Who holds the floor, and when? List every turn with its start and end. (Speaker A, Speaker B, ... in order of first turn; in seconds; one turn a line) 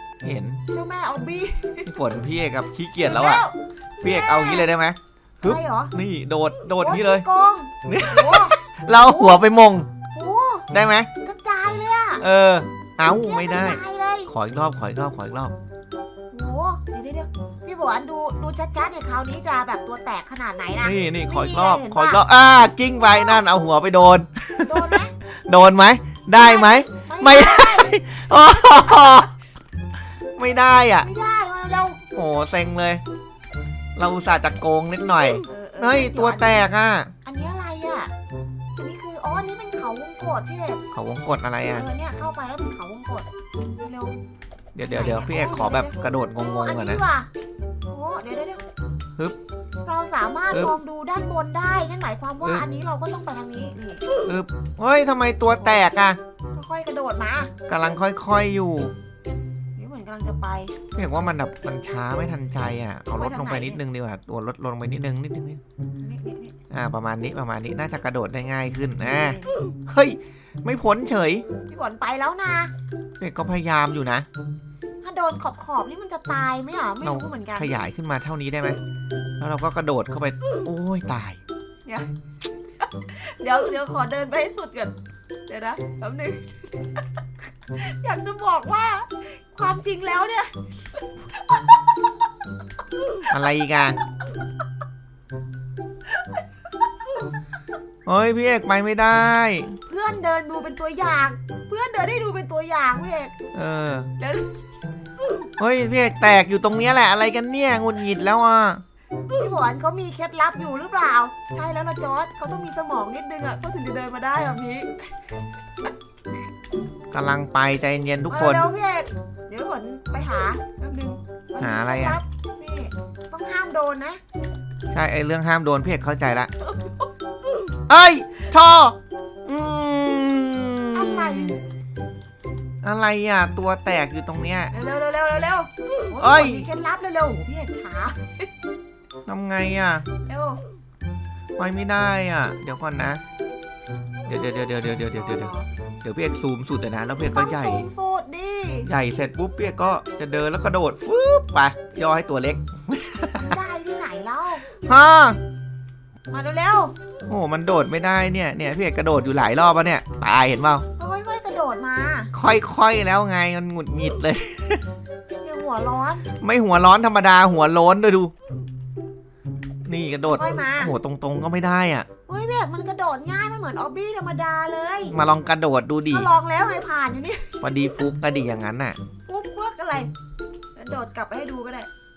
Speaker A: 0.2-0.6
Speaker B: 0.7-1.9
Speaker A: 1.9-3.4
Speaker B: 3.0-4.7
Speaker A: 4.0-7.2
Speaker B: 5.4-5.9
Speaker B: 6.8-9.4
Speaker A: 7.8-9.9
Speaker B: 10.1-10.7
Speaker A: 10.7-11.1
Speaker B: 11.2-12.2
Speaker A: 12.2-15.5
Speaker B: 13.0-14.3
Speaker B: 16.3-22.2
Speaker A: 20.8-29.3
Speaker B: 23.0-23.4
Speaker B: 24.6-25.1
Speaker B: 26.4-28.0
Speaker A: 30.4-31.1
Speaker B: 31.0-32.0
Speaker A: 32.1-33.0
Speaker A: 34.0-37.1
Speaker B: 35.4-36.7
Speaker B: 37.2-38.1
Speaker B: 38.8-40.8
Speaker A: 40.9-41.8
Speaker B: 41.7-43.3
Speaker B: 43.8-44.2
Speaker A: 44.7-47.0
Speaker B: 44.8-47.3
Speaker B: 47.9-48.6
Speaker B: 49.8-54.0
Speaker A: 54.2-56.2
Speaker B: 55.6-55.8
Speaker B: 56.5-57.5
Speaker A: 57.7-58.9
Speaker B: 59.8-60.7
Speaker A: 60.9-65.6
Speaker B: 63.1-63.8
Speaker B: 66.0-66.5
Speaker A: 66.7-71.4
Speaker B: 69.0-69.6
Speaker B: 71.7-72.7
Speaker A: 73.2-74.3
Speaker B: 75.0-77.8
Speaker A: 77.0-78.8
Speaker A: 79.4-81.4
Speaker B: 81.8-82.1
Speaker B: 82.8-85.0
Speaker B: 85.5-86.9
Speaker B: 87.7-91.8
Speaker A: 93.3-94.0
Speaker A: 98.0-99.8
Speaker B: 99.9-103.3
Speaker A: 103.5-104.1
Speaker B: 104.2-104.6
Speaker A: 105.6-108.8
Speaker B: 109.3-115.0
Speaker A: 117.1-118.7
Speaker B: 118.3-124.2
Speaker A: 121.6-122.2
Speaker A: 124.9-126.5
Speaker B: 126.6-127.0
Speaker A: 127.9-131.6
Speaker B: 130.9-131.6
Speaker A: 132.8-134.7
Speaker B: 134.7-138.5
Speaker A: 136.2-136.7
Speaker A: 139.2-140.1
Speaker B: 140.2-140.6
Speaker A: 141.6-143.2
Speaker A: 144.2-145.5
Speaker B: 145.1-145.7
Speaker A: 146.0-147.9
Speaker B: 147.2-148.9
Speaker A: 148.8-153.6
Speaker B: 153.4-154.6
Speaker A: 154.8-155.4
Speaker B: 156.3-156.9
Speaker A: 157.3-160.8
Speaker B: 161.0-162.3
Speaker A: 162.3-164.8
Speaker B: 165.4-166.2
Speaker A: 166.4-168.3
Speaker A: 169.8-172.1
Speaker B: 170.3-170.9
Speaker B: 172.3-175.2
Speaker A: 175.1-176.3
Speaker B: 176.1-178.0
Speaker A: 177.6-179.0
Speaker B: 179.3-180.1
Speaker B: 180.8-181.9